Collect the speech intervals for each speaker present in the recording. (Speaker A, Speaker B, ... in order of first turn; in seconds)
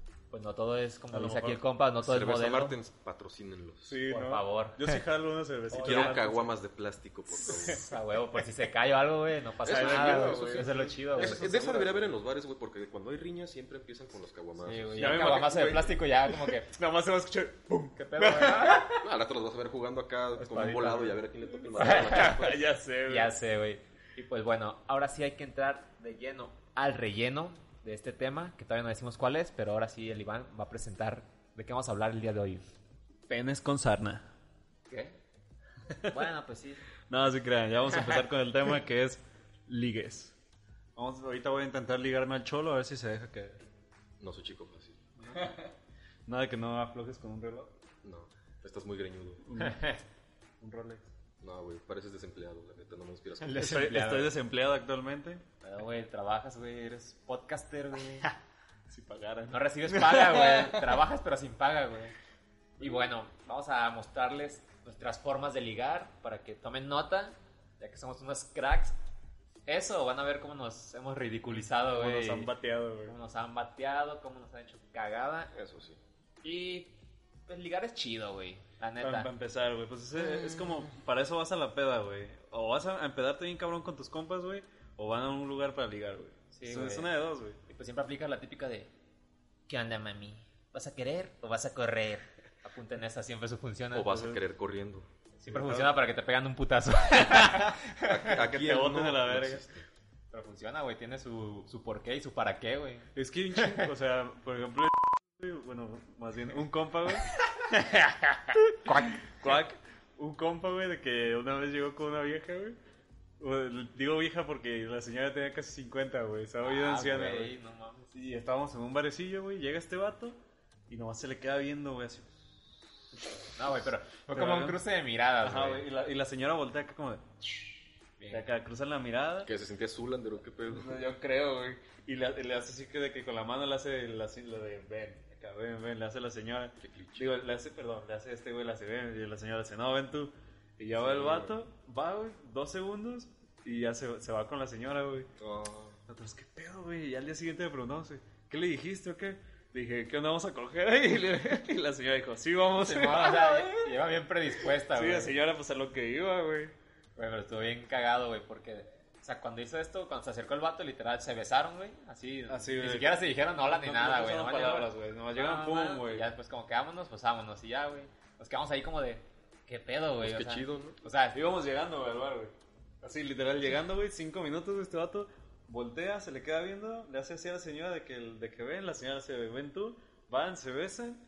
Speaker A: 0.3-2.7, 4.1-5.0, 5.7-6.3, 7.4-11.8, 14.6-16.7, 18.0-18.9, 20.4-21.2, 21.7-22.4, 23.1-32.6, 34.9-35.2, 36.1-36.8, 49.6-50.0, 53.4-54.3, 55.6-58.3, 59.5-62.1, 62.8-69.0, 69.7-72.5, 73.1-75.5, 76.4-76.9, 77.5-79.3, 86.5-87.1, 87.7-88.9, 89.7-94.3, 95.4-98.3, 100.3-103.8, 108.8-109.6, 116.6-118.1, 123.5-125.8, 128.2-128.5, 152.8-155.4, 157.2-171.4
Speaker B: 1.1-1.6, 3.8-6.5, 7.4-7.8, 9.6-12.1, 15.0-19.0, 21.8-23.3, 33.3-34.3, 35.9-36.1, 37.1-40.3, 41.0-43.6, 45.3-45.7, 46.2-47.7, 49.4-49.9, 50.6-51.1, 53.5-55.4, 58.9-60.9, 71.9-73.2, 79.0-87.6, 95.5-96.0, 97.3-97.7, 98.3-99.6, 103.1-112.8, 113.4-117.5, 118.1-120.4, 120.9-122.5, 123.2-123.5, 124.3-124.8, 125.4-129.5, 130.7-145.3, 146.1-153.9, 154.9-156.7, 162.5-166.2, 171.3-181.2
Speaker C: 2.0-4.0, 5.7-7.8, 9.6-15.3, 19.0-22.6, 44.2-45.0, 48.0-49.4, 51.4-53.9, 75.5-76.0, 80.2-80.8, 93.9-95.1, 98.0-99.9, 129.4-131.0, 136.8-137.3, 140.9-141.6, 145.4-146.0, 170.2-171.0